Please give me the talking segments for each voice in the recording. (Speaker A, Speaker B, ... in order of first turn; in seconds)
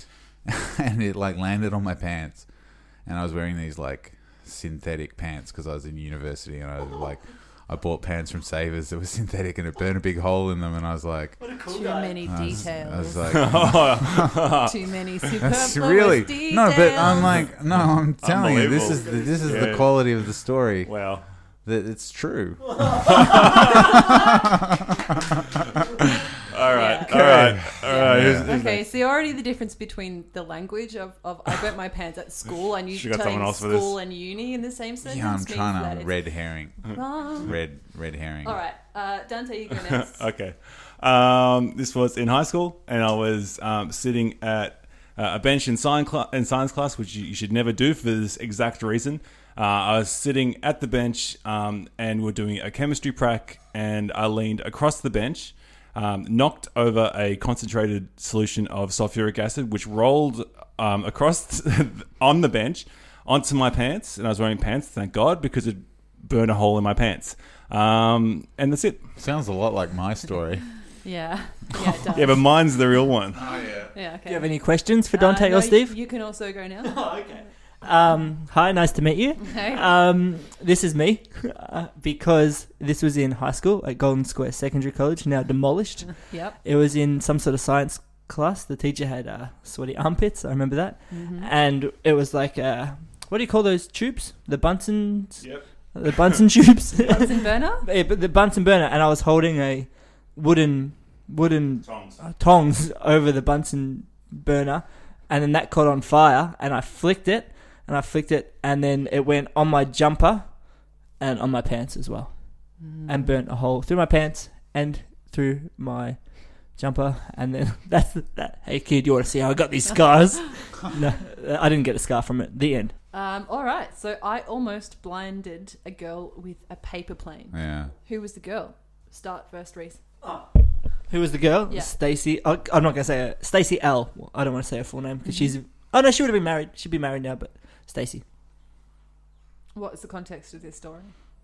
Speaker A: 0.5-2.5, 3.1-11.6, 12.3-14.2, 15.4-21.1, 21.6-24.3, 27.1-28.5, 35.0-38.6, 69.2-70.7, 73.4-73.9, 127.5-127.9
Speaker B: 11.4-12.4, 18.8-19.7, 74.3-76.0, 76.8-122.9, 131.1-138.2
Speaker C: 11.7-13.3, 14.6-17.2, 26.7-37.5, 38.4-40.2, 71.0-72.4, 73.9-74.5, 75.0-77.4, 79.4-79.8, 86.2-86.6, 91.1-91.5, 97.0-97.9, 112.8-113.4, 123.1-130.0, 131.7-131.9, 135.2-135.5, 139.7-141.1
Speaker D: 13.3-15.4, 17.0-20.0, 20.8-21.2, 23.0-24.0, 26.5-28.9, 32.9-34.0, 39.7-69.0, 72.1-73.4, 101.8-102.2